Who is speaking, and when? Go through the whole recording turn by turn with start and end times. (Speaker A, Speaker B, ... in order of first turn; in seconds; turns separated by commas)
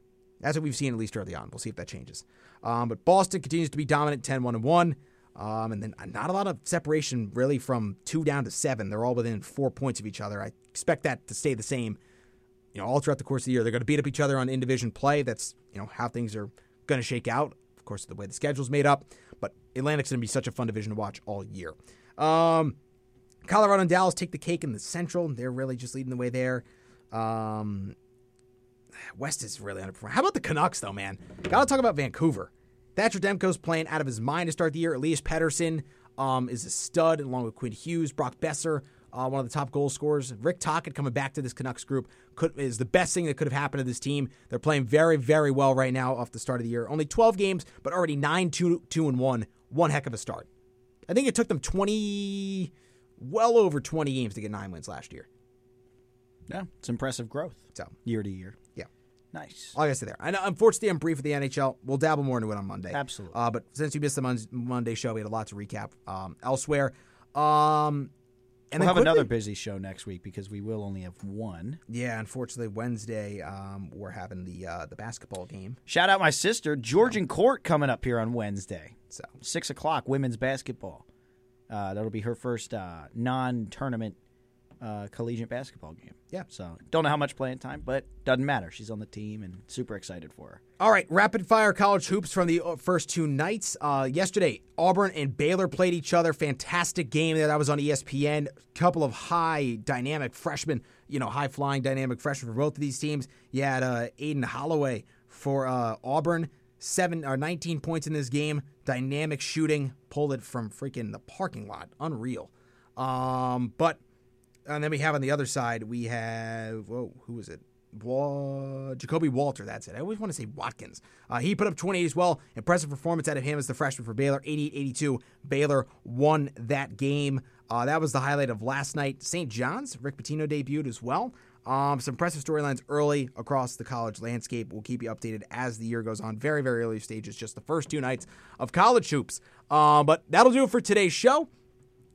Speaker A: 0.4-12.0, Speaker A: 12.7-22.8, Speaker A: 23.4-27.9, Speaker A: 29.1-50.5, Speaker A: 51.1-55.3, Speaker B: 56.5-58.6, Speaker B: 59.3-59.8, Speaker A: 59.7-68.1, Speaker B: 62.9-63.4, Speaker A: 68.7-69.3, Speaker B: 68.7-71.8, Speaker A: 71.9-75.8, Speaker B: 75.9-81.0, Speaker B: 81.7-84.2, Speaker B: 84.8-90.6, Speaker A: 90.8-114.0, Speaker A: 114.7-141.5